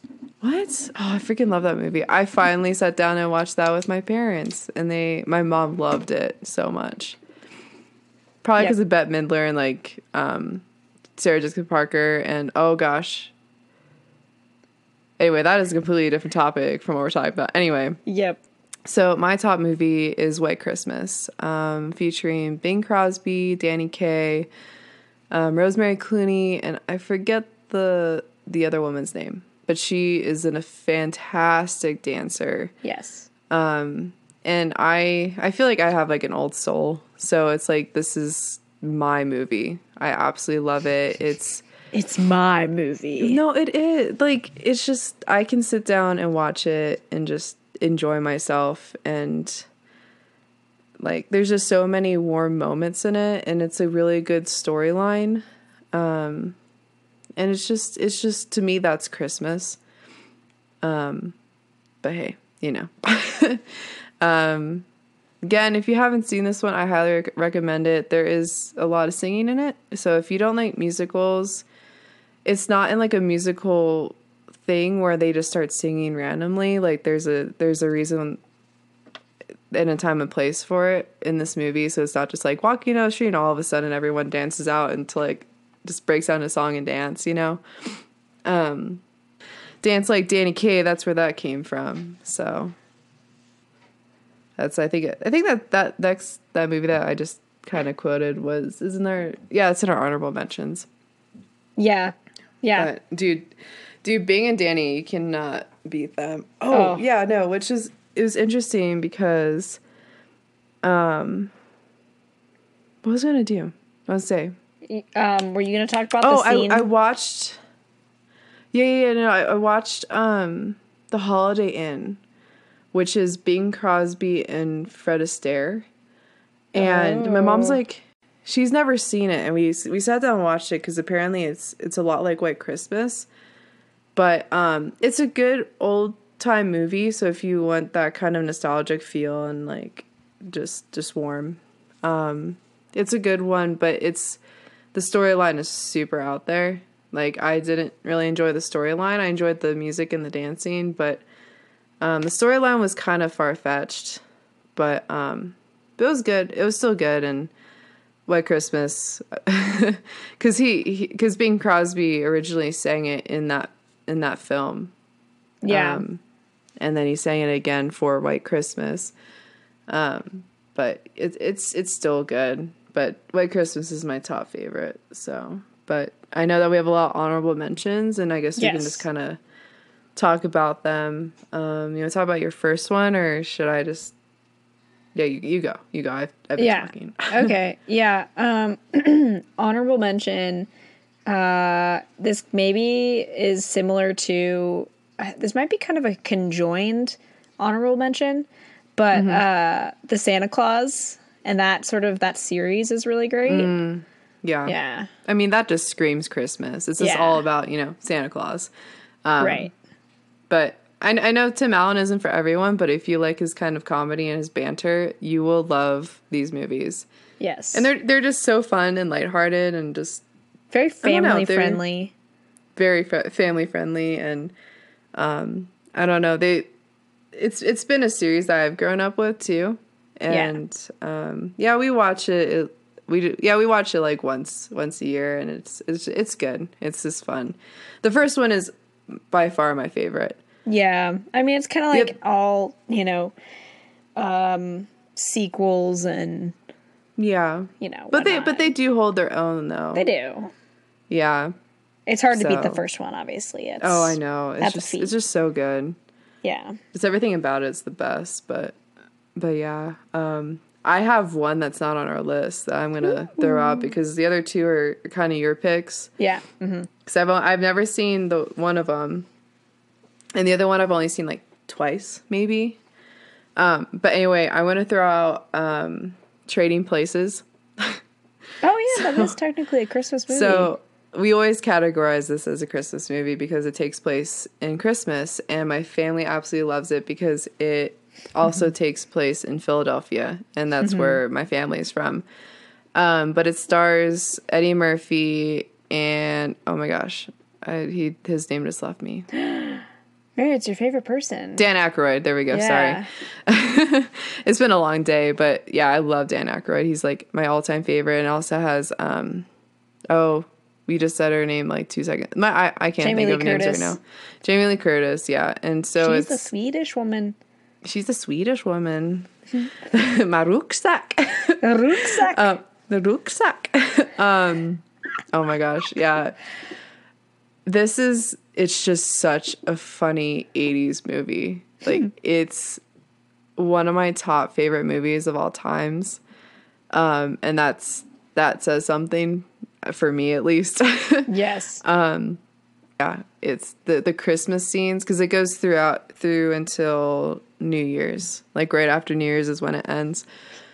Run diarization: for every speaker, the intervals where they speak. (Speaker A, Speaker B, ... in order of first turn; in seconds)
Speaker A: 0.4-7.2, 8.4-10.6, 11.2-13.3, 15.2-18.0, 18.8-24.5, 25.3-32.7, 33.5-41.6, 43.2-49.7, 51.0-56.6, 57.4-59.8, 60.8-61.4, 62.0-64.8, 65.4-71.6, 72.4-78.4, 79.7-87.6, 88.4-89.0, 89.8-92.7, 94.6-100.9, 102.7-109.8, 110.8-111.5, 113.0-114.5, 116.2-117.6, 118.7-122.2, 122.9-125.9, 126.7-133.3, 134.1-144.4, 144.9-151.2, 152.0-154.2, 154.7-157.5, 158.3-164.9, 165.7-166.2, 166.8-169.1, 169.9-179.4, 180.2-184.1, 185.1-187.5, 199.1-199.4, 203.5-204.7, 205.2-208.7, 209.2-209.7, 210.5-217.1, 217.7-220.2, 221.0-221.8, 222.8-224.5, 225.1-226.7, 227.3-240.4, 247.2-250.1, 251.1-251.5, 252.3-252.8, 253.8-256.0, 256.9-258.8, 259.3-266.1, 267.1-269.3, 270.3-272.8, 273.6-278.0, 278.9-279.3, 280.3-292.2, 292.9-299.3, 301.6-309.5, 310.1-316.5, 317.8-319.3, 319.8-326.4, 327.6-332.8, 333.6-336.2, 336.9-341.3, 341.8-342.4, 343.0-350.2
Speaker B: 18.1-18.4, 32.8-33.3, 41.9-43.4, 101.8-102.9, 106.7-107.0, 114.8-116.9, 126.7-127.8, 165.6-166.0, 178.6-179.1, 186.6-190.7, 191.3-203.7, 204.7-205.1, 207.0-207.4, 209.4-209.7, 217.4-217.9, 220.7-222.1, 230.3-230.6, 240.7-243.3, 244.2-246.5, 247.8-248.7, 249.9-250.5, 252.1-255.1, 256.4-256.8, 263.1-263.9, 266.2-266.9, 278.6-280.7, 290.8-291.2, 299.4-299.8, 300.4-301.6, 302.5-303.1, 313.0-314.0, 316.0-317.4, 321.6-322.5, 341.3-341.8